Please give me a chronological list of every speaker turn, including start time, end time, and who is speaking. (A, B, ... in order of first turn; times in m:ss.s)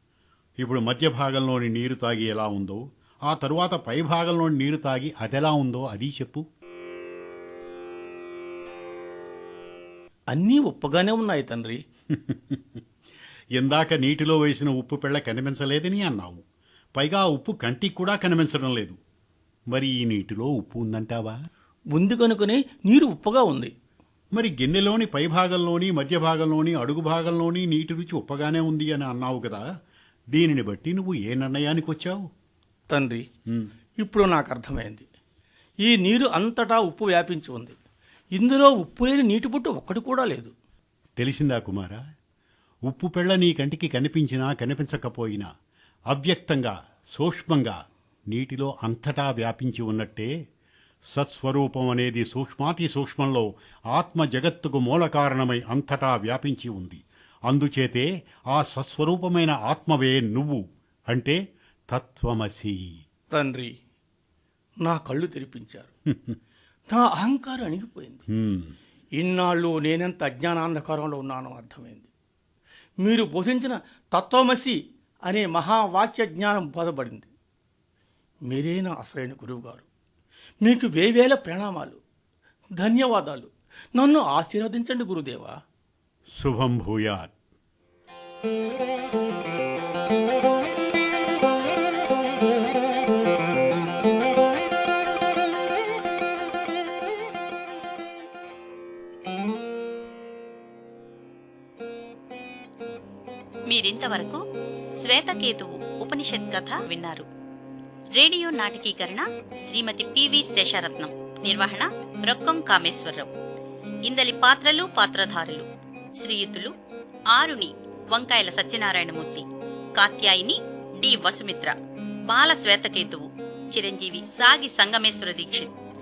0:00.6-0:06.4 A
0:10.3-0:11.8 B
0:12.1-0:12.8 A
0:13.6-0:16.4 A
0:17.0-0:19.0 A
0:19.7-0:21.4 A
0:21.9-0:23.7 B
0:24.4-0:29.6 A
0:30.3-0:32.2 A
0:32.9-0:33.2 B
0:34.0-0:35.1 B
0:35.8-0:37.8 B
0:38.3-0:40.5 B
0:41.2-0:42.0 A
0:42.9-0:45.5 A
0:46.1-0:47.8 A
0:48.3-0:50.3 A
0:51.1-1:01.4 A
1:01.9-1:02.8 A
1:03.3-1:03.7 B
1:04.8-1:05.9 B
1:06.1-1:06.4 A
1:06.9-1:08.2 B
1:08.3-1:08.8 A
1:09.1-1:12.1 B
1:13.0-1:17.3 B
1:18.4-1:19.8 B
1:20.6-1:22.0 B
1:22.8-1:25.6 B
1:26.4-1:27.3 A
1:43.7-1:44.4 C
1:45.0-1:47.2 C
1:48.1-1:53.3 C
1:54.1-1:55.6 C
1:56.2-1:56.7 C
1:57.3-2:01.7 C
2:02.3-2:05.7 C